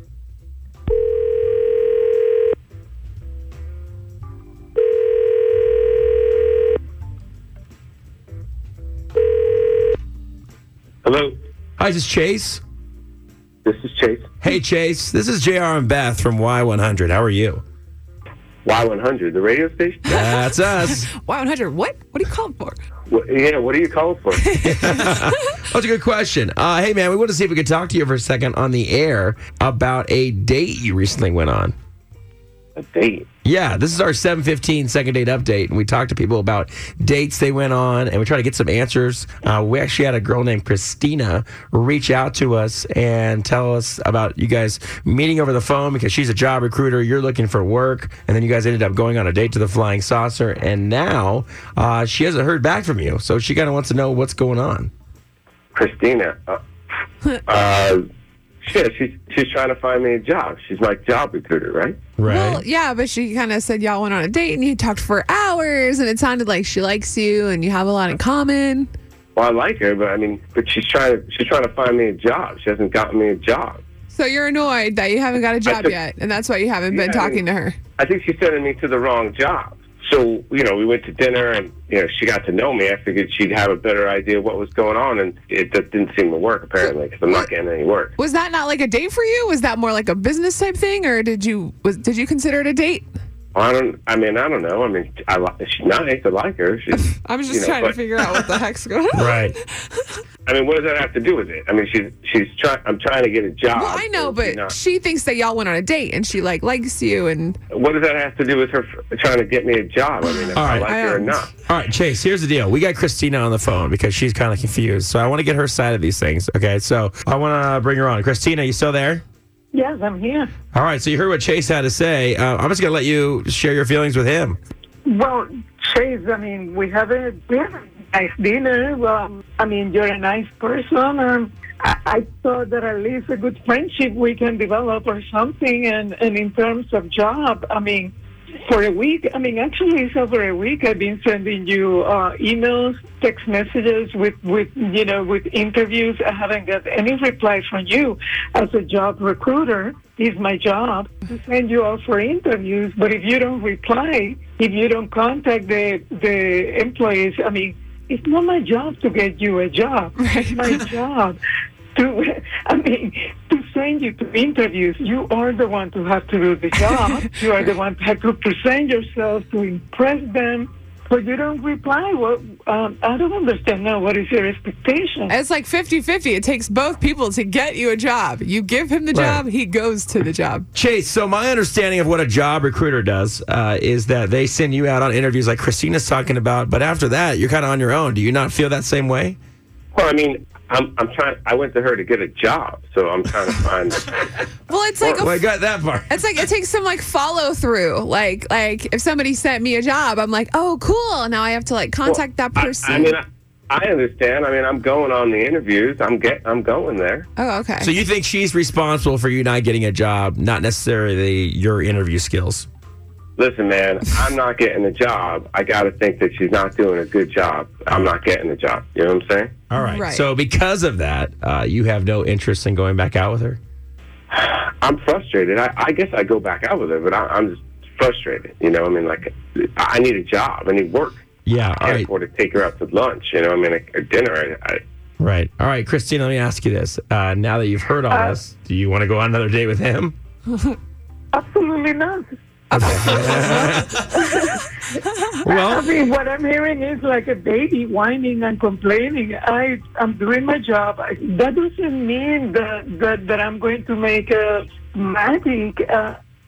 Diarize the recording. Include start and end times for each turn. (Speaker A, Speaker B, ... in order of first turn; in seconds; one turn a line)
Speaker A: 11.0-11.3
Speaker B: 11.8-12.6
Speaker A: 13.6-14.3
Speaker B: 14.4-17.6
Speaker A: 18.6-20.0
Speaker C: 20.0-22.8
Speaker B: 20.1-21.1
Speaker A: 23.1-24.4
Speaker C: 24.4-25.6
Speaker B: 24.6-31.7
Speaker A: 32.8-33.2
Speaker B: 33.4-54.9
Speaker A: 55.7-56.6
Speaker A: 57.5-58.0
Speaker A: 58.6-62.0
Speaker B: 62.2-62.6
Speaker C: 62.2-68.9
Speaker A: 69.3-73.8
Speaker C: 74.1-77.8
Speaker A: 75.6-76.0
Speaker A: 76.9-77.4
Speaker A: 78.0-88.1
Speaker C: 86.8-87.5
Speaker C: 88.2-93.1
Speaker A: 93.5-98.0
Speaker C: 96.9-100.1
Speaker B: 99.1-99.5
Speaker A: 100.5-104.8
Speaker C: 103.7-107.6
Speaker A: 107.7-111.5
Speaker C: 110.3-111.5
Speaker B: 110.5-110.9
Speaker B: 111.7-119.2
Speaker D: 119.7-120.5
Speaker B: 120.7-124.6
Speaker D: 125.0-161.4
Speaker C: 160.2-160.8
Speaker D: 161.9-175.3
Speaker C: 166.8-167.5
Speaker C: 175.3-180.7
Speaker B: 179.1-179.4
Speaker B: 180.7-189.4
Speaker A: 189.9-194.4
Speaker C: 194.7-195.4
Speaker B: 195.2-196.2
Speaker C: 196.1-203.2
Speaker A: 202.0-207.3
Speaker C: 207.4-207.9
Speaker B: 207.8-212.7
Speaker A: 213.4-219.5
Speaker B: 217.9-218.2
Speaker B: 219.7-223.6
Speaker C: 219.8-220.2
Speaker A: 224.3-231.2
Speaker B: 231.4-232.1
Speaker A: 231.8-234.8
Speaker B: 235.2-240.2
Speaker D: 238.1-238.4
Speaker D: 241.3-242.3
Speaker C: 242.7-243.9
Speaker B: 242.7-244.1
Speaker D: 244.0-256.2
Speaker B: 245.4-245.9